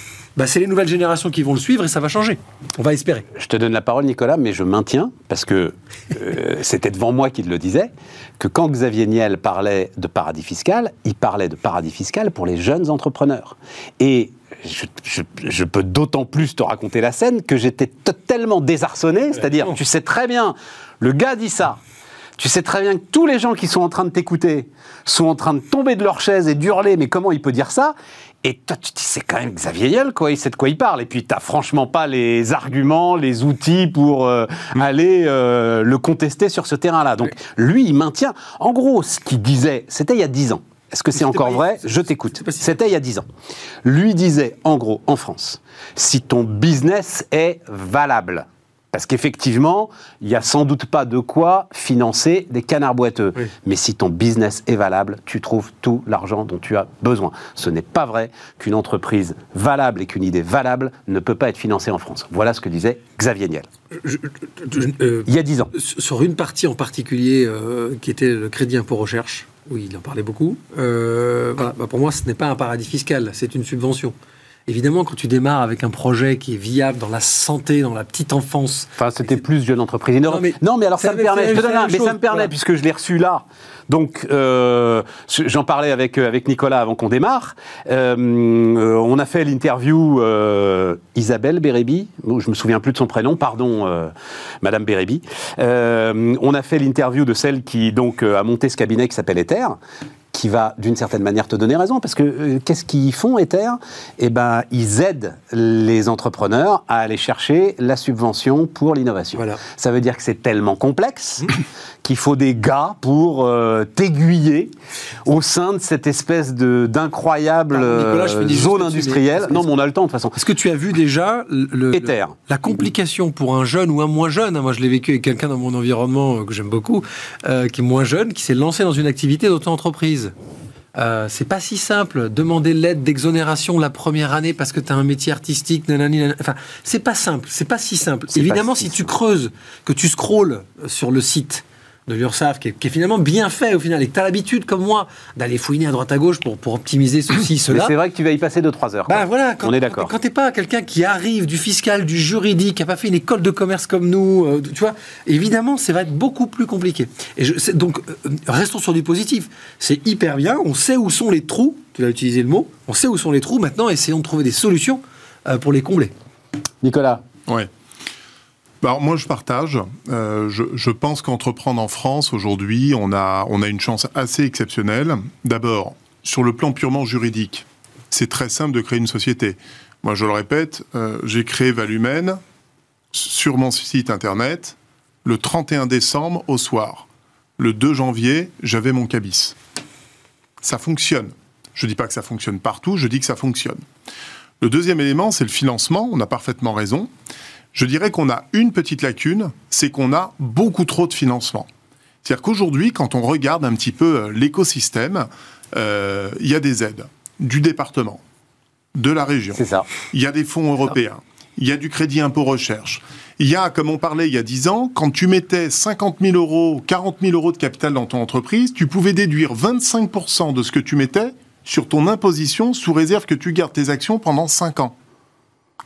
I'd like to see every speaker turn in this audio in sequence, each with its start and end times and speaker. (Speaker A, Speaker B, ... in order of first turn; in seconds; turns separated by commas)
Speaker A: 0.3-3.3, Speaker B: 3.3-21.8, Speaker A: 19.4-19.8, Speaker B: 22.4-43.2, Speaker A: 41.1-42.7, Speaker B: 43.8-63.7, Speaker A: 64.0-74.1, Speaker B: 65.3-65.7, Speaker A: 74.7-79.0, Speaker B: 79.0-99.8, Speaker A: 80.3-82.5, Speaker B: 100.3-114.7, Speaker A: 109.3-109.6, Speaker B: 115.2-120.3, Speaker A: 117.7-119.7, Speaker A: 120.3-130.3, Speaker B: 121.9-122.4, Speaker A: 130.9-147.9, Speaker B: 138.3-139.1, Speaker B: 147.7-150.1, Speaker A: 149.1-166.1, Speaker B: 166.8-167.2, Speaker C: 168.8-182.4, Speaker C: 183.1-187.1, Speaker C: 187.6-189.6, Speaker C: 190.6-193.8, Speaker C: 194.6-197.1, Speaker C: 197.7-201.7, Speaker C: 202.2-208.2, Speaker C: 208.9-224.9, Speaker B: 209.6-209.9